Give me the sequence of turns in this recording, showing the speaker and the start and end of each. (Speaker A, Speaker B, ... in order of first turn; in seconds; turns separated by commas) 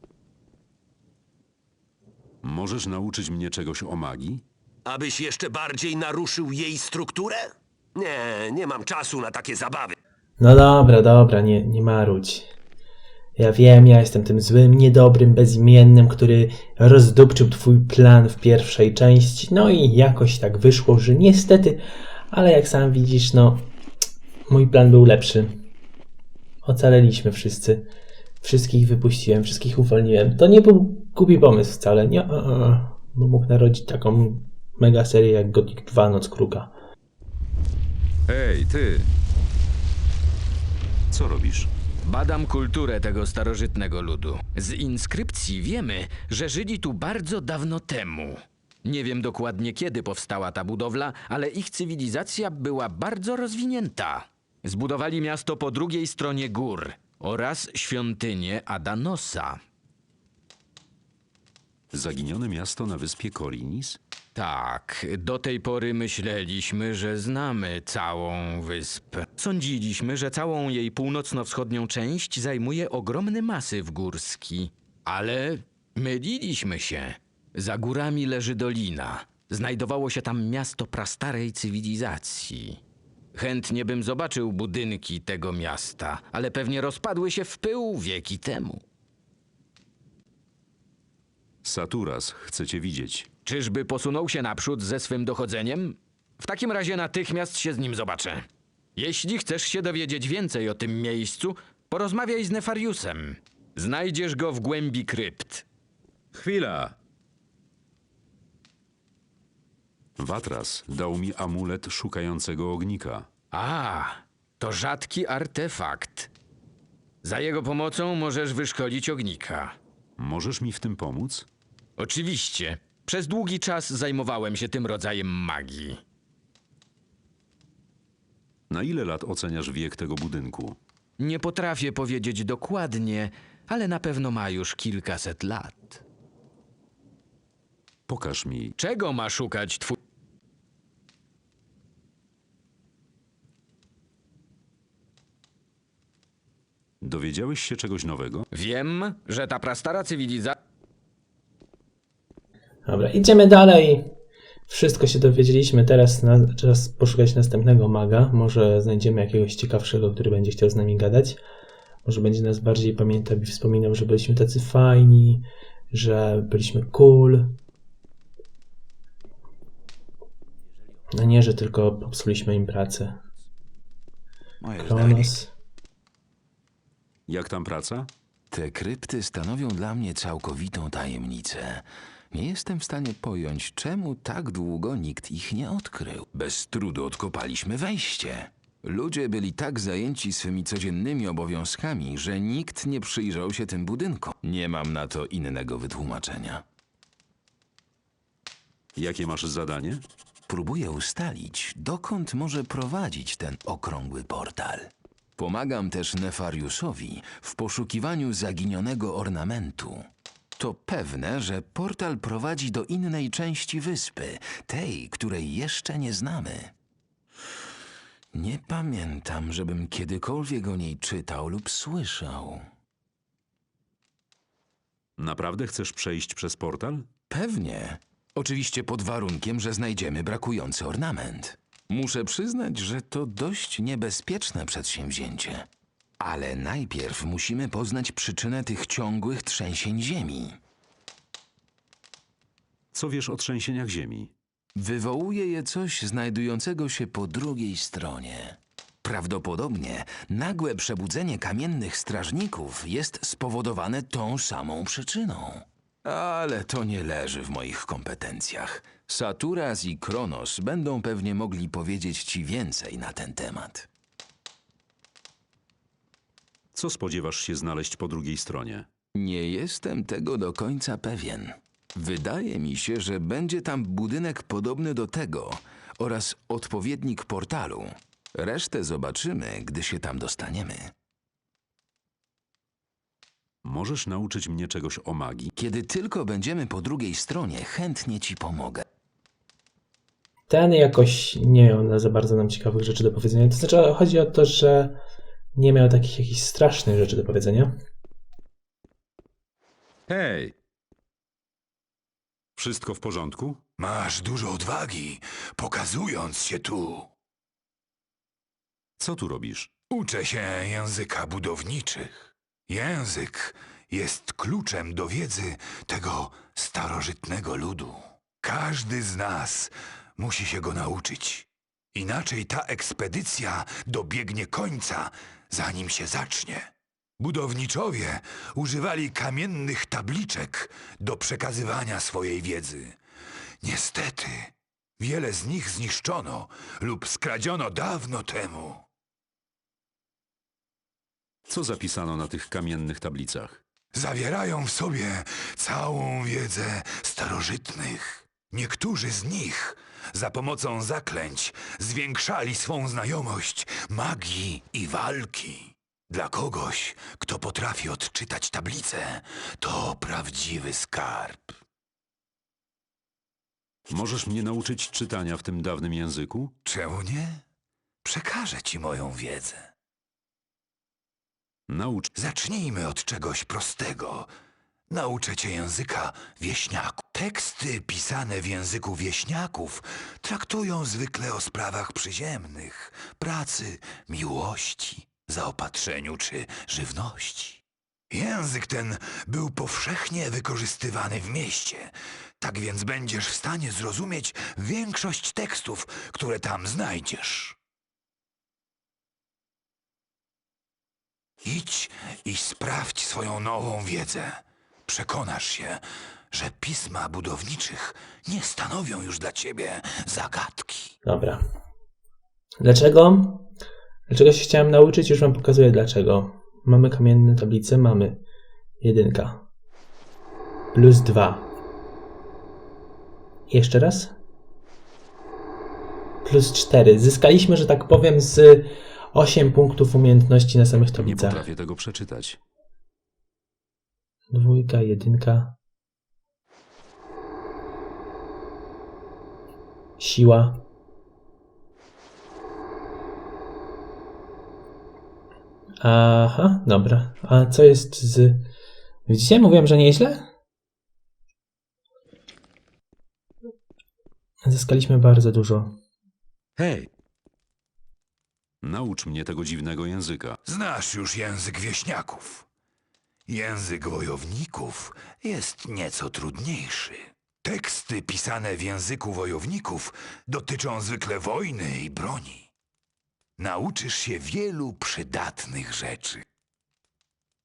Speaker A: 2.4-4.4, Speaker B: 4.9-7.4, Speaker B: 8.0-10.0, Speaker C: 10.4-12.5, Speaker C: 13.4-23.7, Speaker C: 24.5-25.7, Speaker C: 26.6-27.9, Speaker C: 28.4-36.7, Speaker A: 38.3-39.1, Speaker A: 41.1-41.7, Speaker D: 42.0-59.6, Speaker A: 61.9-64.0, Speaker D: 64.3-82.8, Speaker D: 83.3-88.8, Speaker A: 91.6-93.3, Speaker D: 93.5-105.7, Speaker A: 106.3-107.0, Speaker A: 110.2-113.3, Speaker D: 113.5-116.3, Speaker D: 117.2-119.8, Speaker A: 120.2-121.5, Speaker D: 122.0-126.0, Speaker A: 128.7-130.8, Speaker D: 131.2-136.0, Speaker A: 138.1-138.7, Speaker D: 138.8-140.0, Speaker A: 147.0-148.5, Speaker D: 148.5-150.6, Speaker C: 152.9-154.1, Speaker C: 154.7-161.4, Speaker C: 162.1-167.6, Speaker C: 171.1-173.2, Speaker E: 174.6-175.3, Speaker C: 174.8-175.5, Speaker A: 177.3-178.1, Speaker E: 178.5-196.6, Speaker A: 199.0-200.0, Speaker E: 200.5-210.1, Speaker E: 210.6-216.7, Speaker E: 218.3-222.6, Speaker A: 225.2-227.1, Speaker E: 227.3-235.7, Speaker E: 236.2-240.6, Speaker A: 242.9-244.3, Speaker E: 244.8-263.9, Speaker A: 266.7-268.9, Speaker E: 269.1-280.9, Speaker A: 283.6-285.5, Speaker E: 285.6-288.9, Speaker C: 290.5-295.0, Speaker C: 295.6-297.8, Speaker A: 300.1-300.5, Speaker A: 302.6-303.6, Speaker F: 303.8-307.1, Speaker A: 309.0-309.8, Speaker F: 309.9-333.0, Speaker F: 333.6-338.9, Speaker A: 341.5-343.6, Speaker F: 343.9-361.6, Speaker A: 363.9-366.5, Speaker F: 366.6-367.4, Speaker F: 368.0-369.7, Speaker A: 371.7-372.1, Speaker F: 372.1-374.3, Speaker F: 374.9-397.6, Speaker F: 401.4-410.9, Speaker C: 411.1-411.4, Speaker C: 412.6-413.5, Speaker C: 414.1-418.2, Speaker C: 418.8-419.5, Speaker C: 420.7-421.5, Speaker C: 423.5-424.1, Speaker C: 426.2-431.5, Speaker A: 431.0-432.4, Speaker C: 434.3-435.6, Speaker C: 440.0-440.7, Speaker C: 445.8-448.4, Speaker C: 449.1-450.3, Speaker C: 454.4-455.8, Speaker A: 456.6-456.9, Speaker A: 458.6-460.4, Speaker F: 460.4-462.5, Speaker F: 463.3-472.5, Speaker F: 473.4-476.2